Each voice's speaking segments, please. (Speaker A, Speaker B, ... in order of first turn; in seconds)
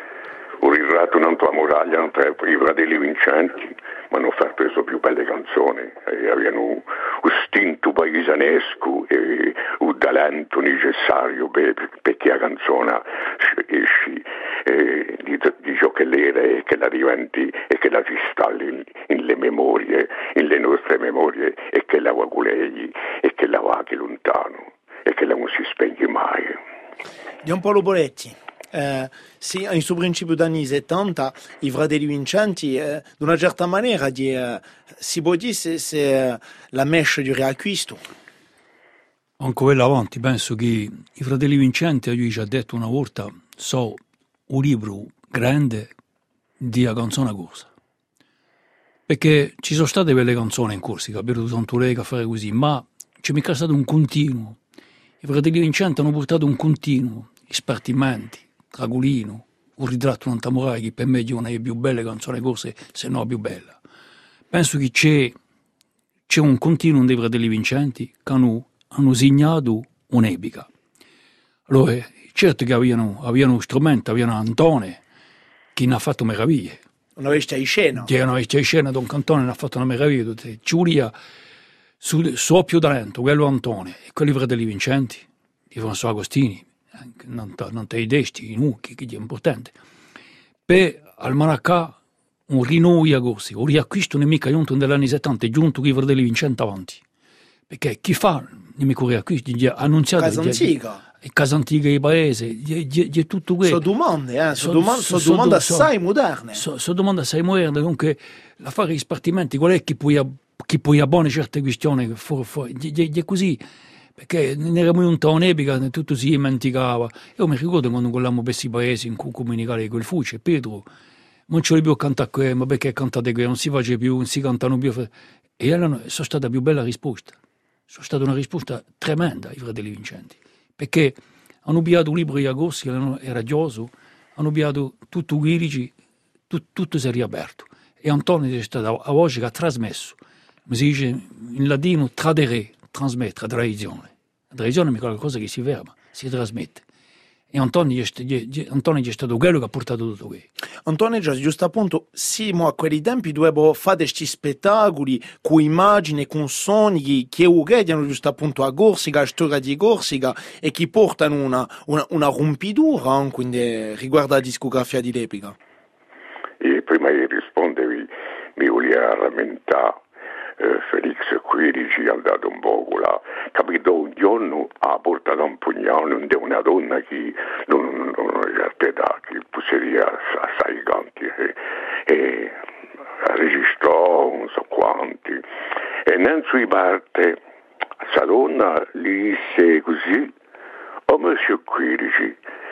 Speaker A: 0.6-26.6, 166.6-170.0, 170.6-182.6, 183.2-185.4, 186.1-187.4, 188.0-190.3, 191.1-192.4
Speaker B: 27.4-38.0, 77.2-78.1, 100.2-101.0, 103.6-106.6, 150.8-165.6
Speaker C: 39.4-45.9, 46.6-47.7, 49.1-54.6, 55.2-63.8, 64.5-65.3, 66.3-70.7, 71.7-75.0, 75.8-76.8, 78.0-81.1, 82.0-89.7, 90.7-92.0, 92.5-97.0, 97.7-103.8, 104.5-105.9, 106.5-113.6, 114.2-120.8, 121.5-127.3, 127.9-135.9, 136.5-146.8, 147.5-150.4